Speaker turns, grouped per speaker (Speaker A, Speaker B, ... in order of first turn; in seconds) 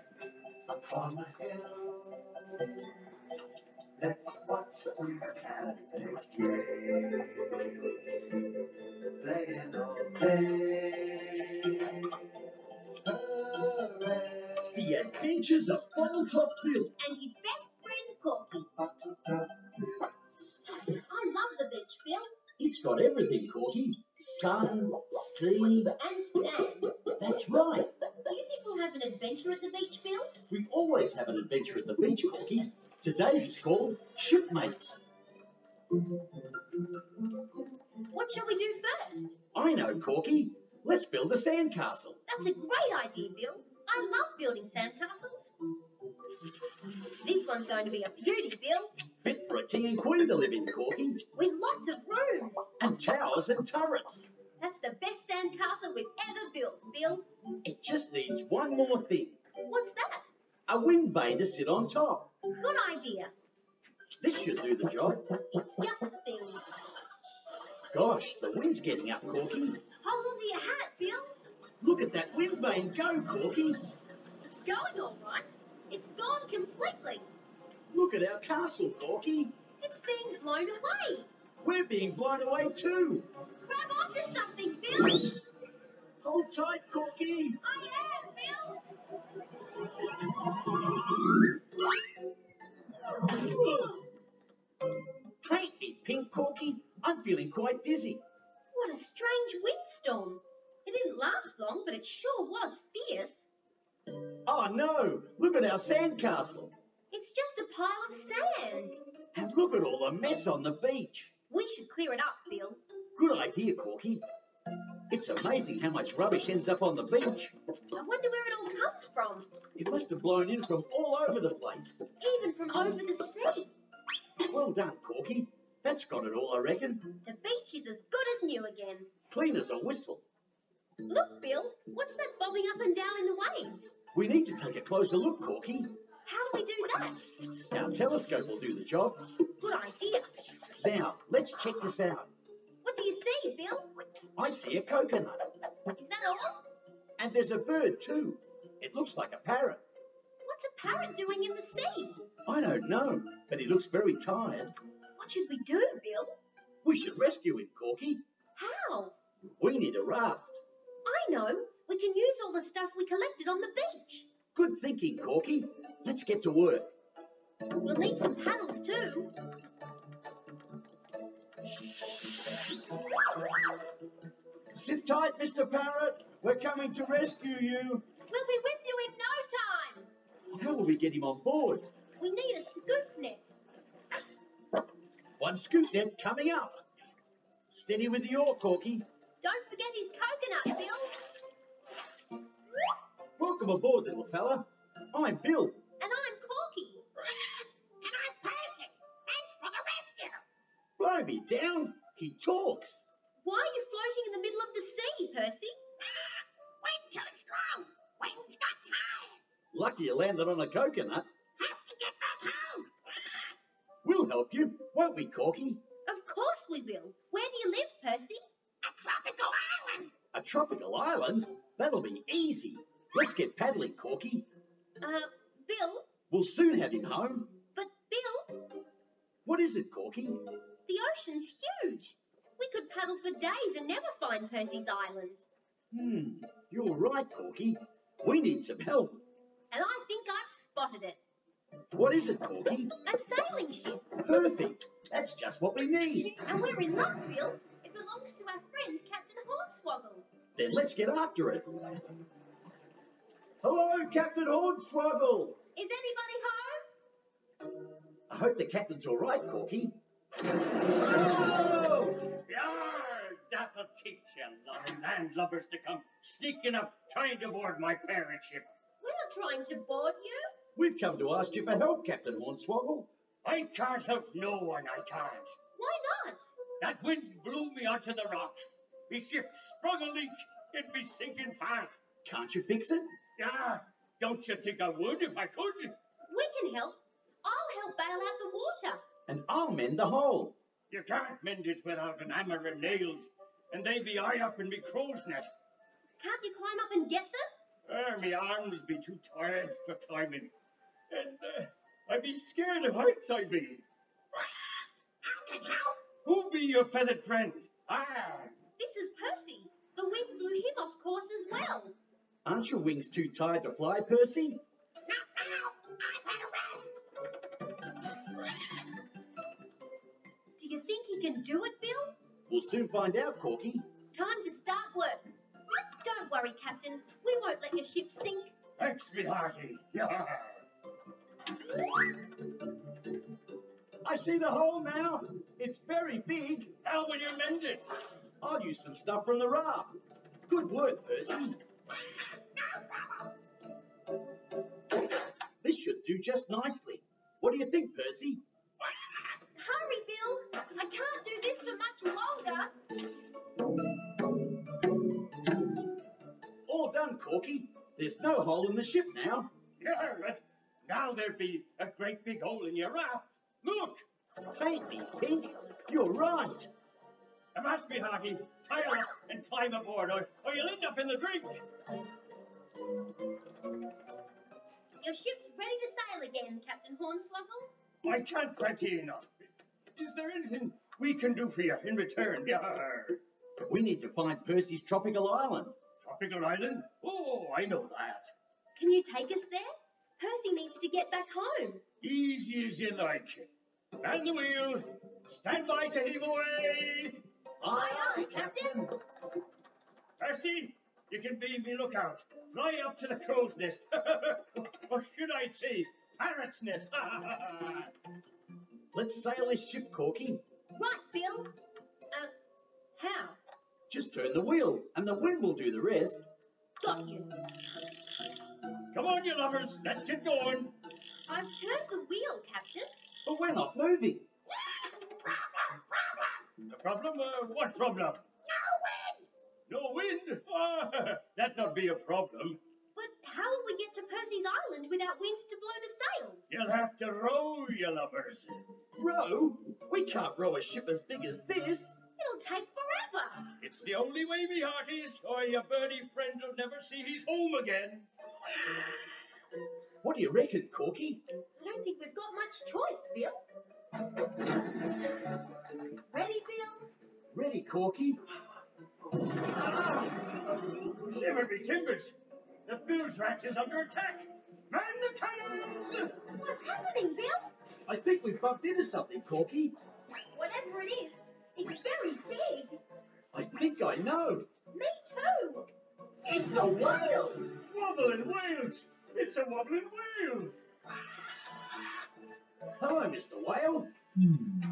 Speaker A: 0.7-2.9, 4.0-12.1, 13.0-14.7, 18.8-20.0
Speaker B: 14.7-16.9, 22.6-25.9, 27.1-27.9, 30.5-35.0, 39.5-42.2, 49.2-51.2, 52.8-54.3, 57.6-59.4, 60.7-62.3, 64.2-65.3, 67.9-69.8, 71.8-73.8, 77.9-79.5, 81.6-83.3, 86.2-87.6, 95.4-98.2, 104.5-106.7, 109.3-111.3, 113.2-114.2, 115.1-117.5, 119.8-122.0, 124.5-127.1, 129.3-130.2, 134.1-135.9, 137.6-139.3, 140.7-142.3, 144.3-145.5, 147.2-149.8, 152.4-154.7, 156.8-158.2, 159.6-160.6, 164.5-166.9, 174.7-178.0, 180.5-181.8, 185.4-186.8, 187.7-189.0, 193.4-195.8, 201.0-203.0, 209.7-211.2, 214.0-215.8, 220.3-224.5, 226.3-227.5, 229.4-230.4, 235.9-239.2, 241.9-242.9, 244.2-246.4, 250.6-251.9, 253.6-255.6, 258.3-260.0, 260.8-262.3, 270.7-273.1, 282.2-283.1, 289.3-290.6, 312.4-314.6, 322.5-323.8, 334.0-336.7, 338.4-339.9, 340.5-341.6, 345.6-348.4, 356.7-359.5, 364.5-366.7, 383.7-385.7, 397.6-399.0, 408.9-410.4, 413.9-416.3, 423.2-424.3, 439.0-442.0, 450.0-451.2, 457.3-458.2, 467.9-469.7, 473.3-474.5, 476.2-477.5, 482.8-483.9
Speaker C: 17.0-18.7, 20.8-22.3, 26.0-27.0, 28.2-30.4, 38.0-39.4, 42.3-45.5, 47.1-48.9, 51.3-52.7, 54.6-57.2, 59.7-60.2, 62.6-63.3, 65.6-66.6, 70.0-71.3, 74.4-77.3, 79.8-81.3, 83.6-85.4, 87.6-88.9, 93.2-94.0, 98.7-103.5, 107.1-109.0, 111.5-112.8, 117.9-119.5, 122.2-123.7, 127.2-129.1, 131.1-133.9, 136.2-137.4, 139.6-140.5, 142.8-143.9, 145.9-146.6, 150.4-152.2, 155.2-156.3, 158.6-159.1, 161.0-164.3, 167.8-169.3, 178.3-180.1, 182.2-183.5, 189.4-191.2, 196.0-197.0, 203.4-205.7, 216.1-218.4, 225.0-226.0, 227.7-228.6, 230.9-235.4, 239.7-241.2, 243.0-244.2, 246.4-250.2, 255.7-256.8, 269.0-270.5, 275.8-276.5, 286.3-289.0, 296.2-297.4, 308.8-311.9, 320.6-322.1, 324.1-328.5, 349.5-352.7, 375.0-377.7, 388.8-391.8, 397.7-398.7, 410.7-411.5, 413.0-413.4, 416.8-417.4, 421.3-422.9, 432.9-436.5, 442.2-443.5, 451.6-453.4, 456.1-456.9, 466.3-467.5, 470.3-472.8, 474.7-475.7
Speaker D: 197.3-200.4, 206.8-209.4, 211.6-212.9, 218.8-220.1, 305.4-305.9, 315.1-316.9, 342.6-343.2, 425.6-426.3, 428.5-429.2
Speaker E: 262.4-268.6, 273.4-275.5, 276.8-282.0, 283.4-285.9, 290.9-295.5, 297.9-300.5, 301.1-303.8, 306.1-308.5, 328.8-330.6, 336.8-338.0, 359.8-364.0, 367.5-371.6, 378.0-379.3, 379.9-383.2, 386.0-388.3, 392.0-393.5, 394.0-397.2, 400.2-407.9, 418.9-420.7, 426.5-428.2, 429.7-432.6, 436.5-438.7, 443.6-448.1, 459.3-462.1, 462.6-466.2, 477.4-480.6